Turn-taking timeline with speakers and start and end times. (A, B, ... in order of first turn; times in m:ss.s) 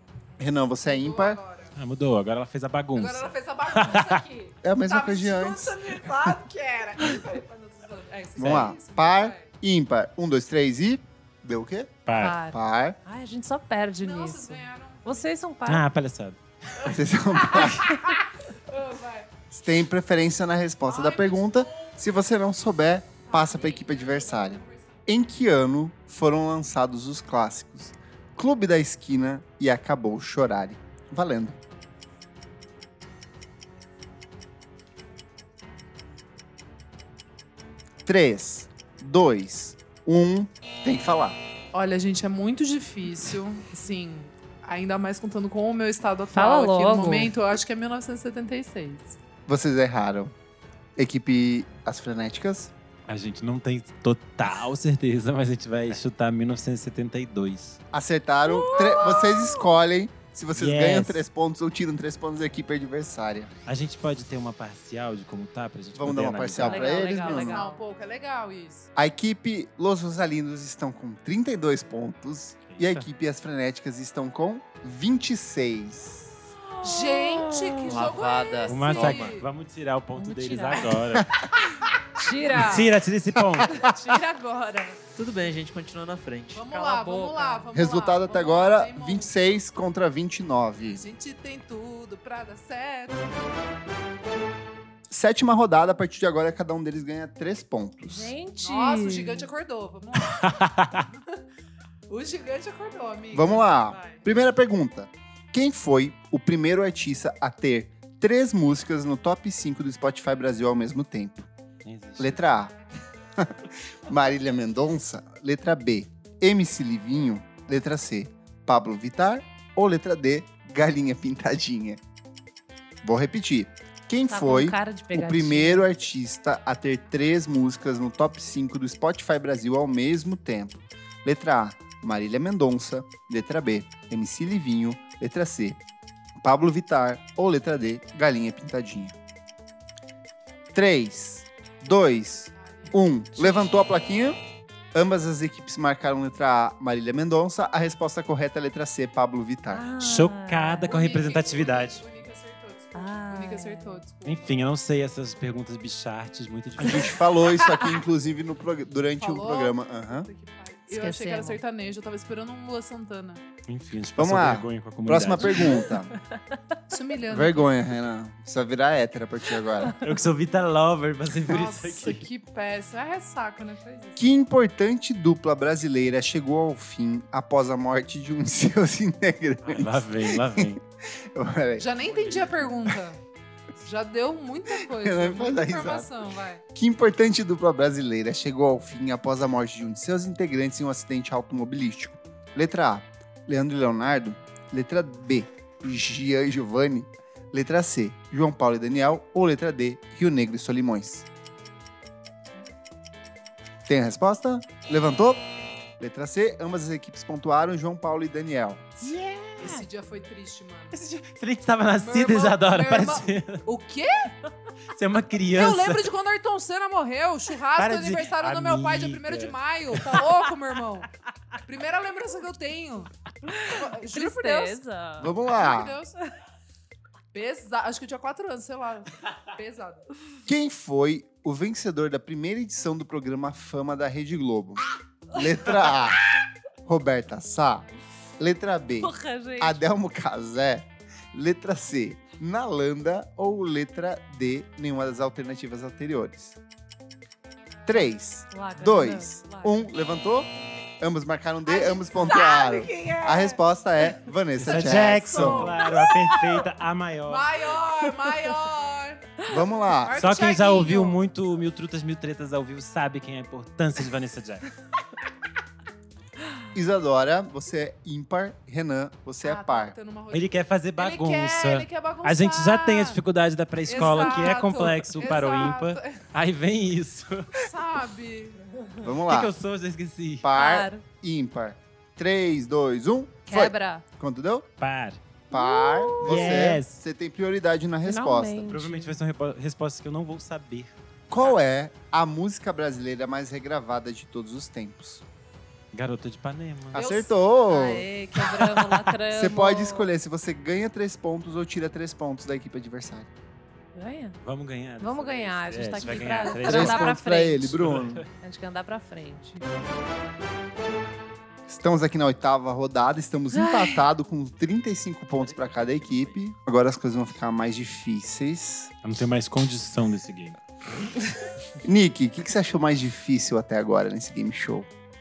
0:00.4-0:01.4 A
0:00.8-0:01.7 B
0:01.8-0:04.2 C
0:02.9-0:09.5 B
0:04.6-0:06.3 A
0:08.4-0:13.0 A
0:08.4-0:08.8 C
0:12.0-0:12.4 C
0:12.2-0:15.8 D
0:14.0-0:15.2 B
0:15.7-0:16.9 C
0:16.8-0:18.0 A
0:17.3-0:19.3 B
0:19.5-0:31.6 A
0:20.9-0:22.0 B
0:23.3-0:25.0 B
0:38.0-0:41.4 A
0:41.7-0:49.2 B
0:46.3-0:47.3 D
0:49.5-0:50.3 A
0:51.0-0:52.7 A
0:53.1-0:57.8 C
0:57.9-1:03.5 A
0:58.4-0:59.7 B
1:00.5-1:01.2 C
1:03.6-1:06.9 C
1:05.9-1:07.7 A
1:06.6-1:07.8 D
1:06.8-1:08.9 B
1:09.0-1:16.3 A
1:12.7-1:13.0 C
1:16.8-1:19.5 B
1:17.0-1:17.8 D
1:17.8-1:19.4 E
1:18.6-1:21.3 C
1:20.2-1:20.9 D
1:21.1-1:21.8 A
1:22.2-1:22.8 D
1:22.2-1:22.9 B
1:22.5-1:23.8 C
1:23.4-1:23.9 A
1:23.7-1:25.0 B
1:25.1-1:26.8 E
1:26.5-1:29.4 B
1:26.7-1:27.7 D
1:27.7-1:31.0 A
1:30.9-1:33.3 B
1:35.1-1:38.3 A
1:38.1-1:39.5 D
1:38.6-1:41.2 B
1:40.2-1:41.1 C
1:42.1-1:44.2 B
1:43.3-1:51.5 A
1:51.8-1:52.4 C
1:52.2-1:52.7 A
1:53.4-2:02.0 A
2:03.0-2:15.8 A
2:04.3-2:05.9 D
2:16.4-2:19.2 A
2:20.7-2:24.4 A
2:22.5-2:23.0 B
2:24.9-2:29.9 A
2:29.7-2:31.2 D
2:30.0-2:32.0 C
2:30.9-2:34.6 B
2:32.9-2:34.0 D
2:34.2-2:37.2 C
2:36.8-2:40.3 A
2:37.0-2:38.0 B
2:39.2-2:43.4 B
2:40.9-2:41.6 D
2:43.7-2:45.9 C
2:44.2-2:46.1 A
2:46.9-2:47.7 B
2:47.3-2:50.0 A
2:50.0-2:52.2 C
2:51.4-2:54.2 B
2:54.2-3:03.0 A
2:59.6-3:00.8 C
3:01.8-3:03.2 B
3:03.8-3:06.6 B
3:04.8-3:06.1 A
3:06.7-3:21.2 A
3:23.9-3:25.4 A
3:26.0-3:29.0 A
3:29.0-3:29.8 C
3:29.6-3:31.0 B
3:30.9-3:33.6 C
3:32.0-3:34.3 B
3:34.9-3:36.1 C
3:35.5-3:41.1 B
3:37.8-3:40.3 C
3:41.6-3:43.1 B
3:43.5-3:45.3 D
3:43.7-3:44.8 B
3:45.2-3:46.0 A
3:45.4-3:46.2 B
3:47.3-3:50.0 B
3:50.4-3:56.2 A
3:56.8-3:57.9 A
3:58.4-4:06.6 A
3:59.0-3:59.8 D
4:07.9-4:15.8 A
4:08.5-4:09.9 D
4:11.7-4:13.6 B
4:14.6-4:17.5 C
4:14.6-4:16.4 B
4:15.9-4:16.4 D
4:17.2-4:19.5 B
4:19.4-4:20.4 A
4:20.0-4:21.2 B
4:20.2-4:24.7 C
4:26.7-4:30.0 A
4:29.4-4:33.2 B
4:30.3-4:37.6 C
4:33.8-4:36.2 B
4:37.6-4:38.6 B
4:39.0-4:39.5 A
4:39.2-4:40.5 C
4:40.4-4:44.7 A
4:40.5-4:41.0 D
4:43.5-4:44.0 D
4:44.8-4:45.2 C
4:45.5-4:48.7 A
4:45.5-4:46.8 D
4:46.2-4:47.0 C
4:48.0-4:49.2 D
4:48.7-4:51.0 C
4:51.3-4:55.2 A
4:55.9-4:57.1 C
4:56.9-4:58.1 A
4:56.9-4:57.3 B
4:57.7-5:00.1 D
4:58.5-4:59.1 C
4:59.3-5:03.3 A
5:03.9-5:04.4 D
5:04.4-5:07.1 C
5:05.0-5:07.7 D
5:06.6-5:08.2 A
5:07.7-5:08.2 C
5:08.4-5:09.6 D
5:11.7-5:18.9 A
5:13.5-5:14.0 D
5:15.4-5:16.4 E
5:19.0-5:20.6 C
5:21.8-5:24.9 A